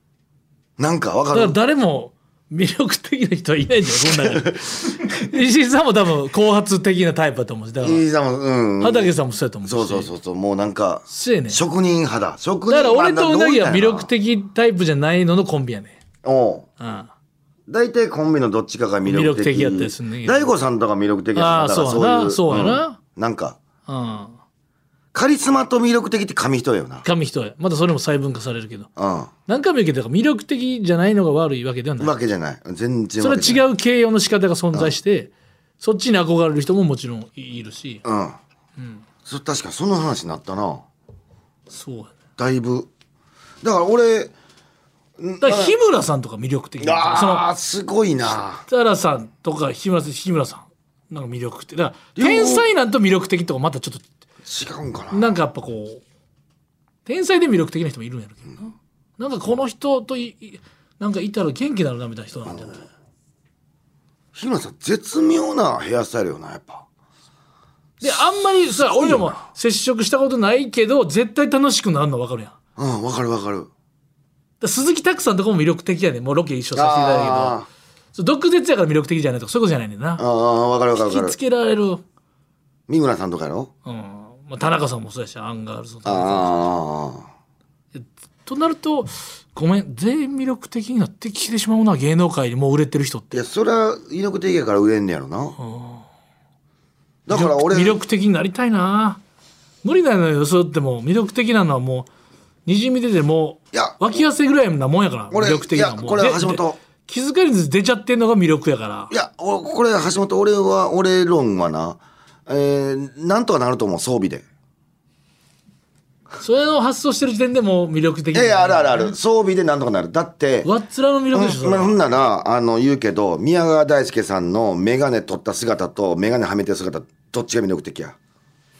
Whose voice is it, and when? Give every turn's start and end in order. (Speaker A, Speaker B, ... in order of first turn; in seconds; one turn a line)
Speaker A: 0.8-1.6
Speaker B: 1.3-8.0
Speaker A: 4.2-4.5
Speaker A: 7.8-9.1
Speaker B: 8.8-10.1
Speaker A: 9.6-14.1
Speaker B: 11.1-11.6
Speaker B: 12.7-16.0
Speaker A: 16.2-16.7
Speaker B: 16.8-17.1
Speaker A: 17.7-23.6
Speaker B: 19.1-20.5
Speaker B: 21.3-23.0
Speaker B: 23.9-24.4
Speaker A: 25.1-27.0
Speaker B: 27.0-28.9
Speaker A: 28.9-29.3
Speaker B: 29.5-32.1
Speaker A: 32.0-33.6
Speaker B: 33.2-38.0
Speaker A: 38.0-38.4
Speaker A: 39.2-40.8
Speaker B: 41.7-42.1
Speaker A: 42.4-42.9
Speaker A: 43.6-44.3
Speaker A: 45.2-45.7
Speaker B: 45.4-47.5
Speaker A: 46.8-48.6
Speaker B: 48.7-54.0
Speaker A: 52.1-52.6
Speaker A: 54.4-55.3
Speaker B: 55.1-56.0
Speaker B: 57.0-62.9
Speaker A: 64.3-66.8
Speaker B: 68.0-72.5
Speaker A: 68.7-69.4
Speaker A: 72.8-73.7
Speaker B: 74.6-77.6
Speaker A: 76.7-77.7
Speaker B: 78.1-80.2
Speaker A: 80.2-81.3
Speaker B: 81.0-82.0
Speaker A: 82.9-83.7
Speaker B: 83.8-86.5
Speaker A: 86.0-87.3
Speaker B: 87.9-93.4
Speaker A: 93.3-95.6
Speaker B: 95.6-96.0
Speaker A: 97.2-98.0
Speaker B: 97.3-99.2
Speaker B: 99.8-102.1
Speaker B: 102.7-109.1
Speaker A: 103.7-104.0
Speaker A: 105.3-106.8
Speaker A: 109.1-114.4
Speaker B: 116.4-119.1
Speaker A: 118.3-120.7
Speaker B: 120.6-122.0
Speaker A: 121.3-128.2